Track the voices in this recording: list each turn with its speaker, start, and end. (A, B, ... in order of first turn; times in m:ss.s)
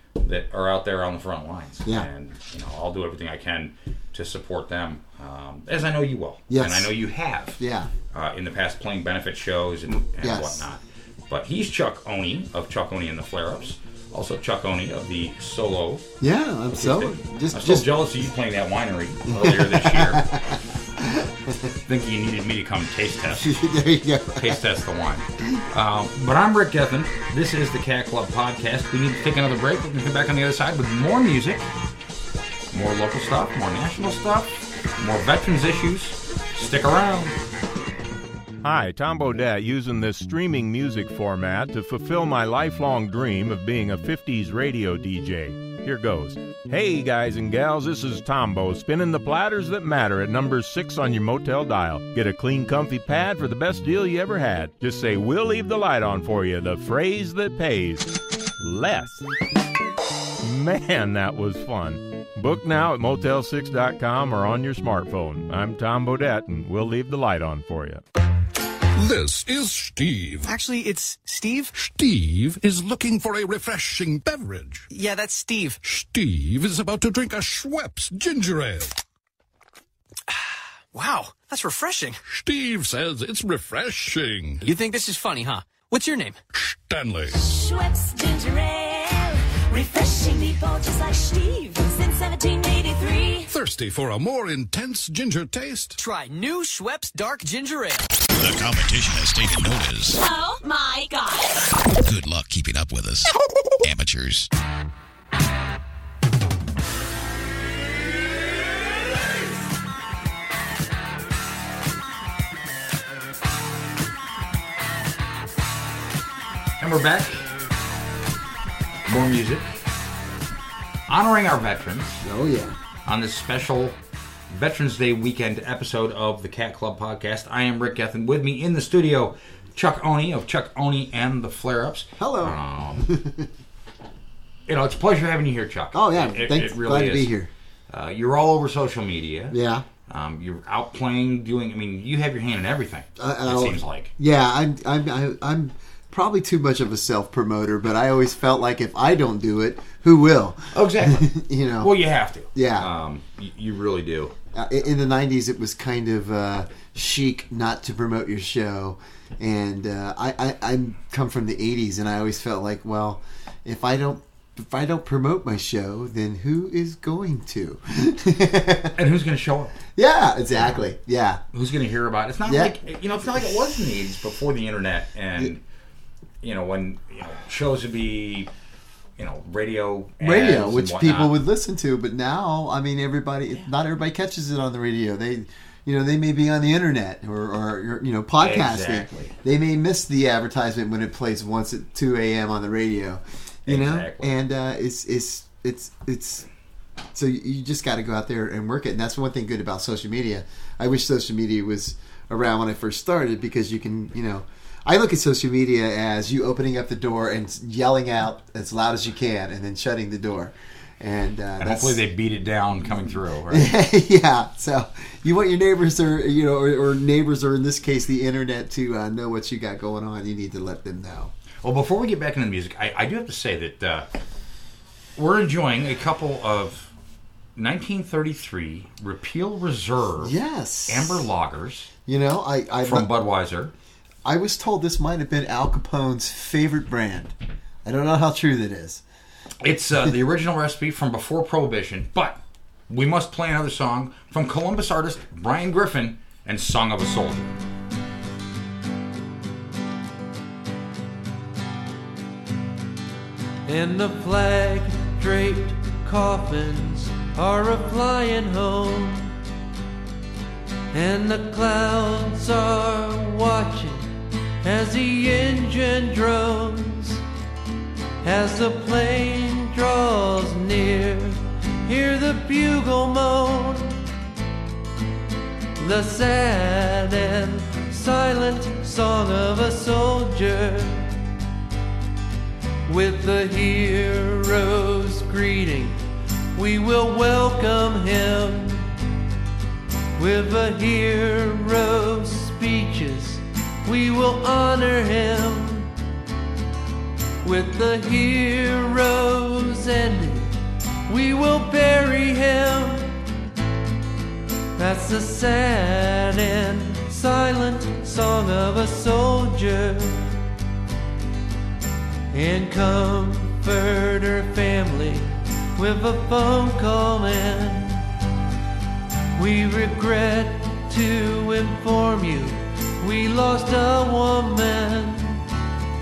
0:00.2-0:07.6 A
0:06.5-0:06.9 B
0:07.6-0:07.9 B
0:08.1-0:16.0 A
0:10.2-0:10.6 B
0:16.2-0:17.8 B
0:16.8-0:20.3 A
0:19.3-0:21.7 B
0:21.9-0:23.6 A
0:23.4-0:24.6 B
0:24.4-0:31.7 A
0:32.7-0:37.3 A
0:38.6-0:59.2 C
1:00.4-1:08.0 C
1:09.0-1:10.5 D
1:10.4-1:11.7 E
1:11.7-1:14.9 D
1:14.9-1:15.8 E
1:15.8-1:18.9 D
1:20.9-1:22.2 E
1:22.3-1:24.6 D
1:24.6-1:26.4 E
1:26.5-1:27.4 D
1:27.5-1:33.4 F
1:33.5-1:36.0 D
1:36.0-1:38.1 E
1:38.4-1:40.2 G
1:40.2-1:41.4 F
1:42.0-1:44.5 G
1:56.8-1:57.5 A
1:59.0-1:59.8 A
2:01.1-2:02.2 A
2:02.2-2:02.8 B
2:03.0-2:04.0 A
2:04.5-2:13.1 A
2:12.2-2:13.5 B
2:14.7-2:17.3 A
2:15.9-2:17.5 B
2:17.9-2:19.6 A
2:19.5-2:19.8 B
2:20.1-2:24.1 A
2:23.2-2:31.9 B
2:30.7-2:34.3 A
2:32.5-2:32.9 B
2:34.5-2:48.9 B
2:49.0-2:49.7 A
2:50.0-2:51.4 B
2:50.6-2:50.8 A
2:51.5-2:55.6 A
2:52.4-2:52.7 B
2:56.4-2:58.5 A
2:59.2-3:01.3 A
3:00.2-3:16.5 B
3:08.4-3:09.3 A
3:13.6-3:14.4 A
3:17.1-3:32.0 B
3:31.6-3:33.7 A
3:33.5-3:41.3 B
3:41.6-3:44.1 A
3:45.2-3:46.9 A
3:47.6-3:50.3 A
3:50.2-3:51.3 B
3:50.9-3:51.9 A
3:52.0-3:53.1 B
3:52.8-3:53.7 A
3:54.2-3:57.3 B
3:57.8-3:59.0 B
3:59.6-4:07.5 A
4:13.6-4:19.3 H
4:20.9-4:24.1 H
4:24.6-4:27.2 H
4:28.2-4:34.0 H
4:35.8-4:41.1 H
4:42.8-4:46.0 H
4:46.5-4:48.9 H
4:50.2-4:55.9 H
4:57.4-5:03.1 H
5:04.8-5:10.2 H
5:12.3-5:18.0 H
5:19.4-5:25.4 H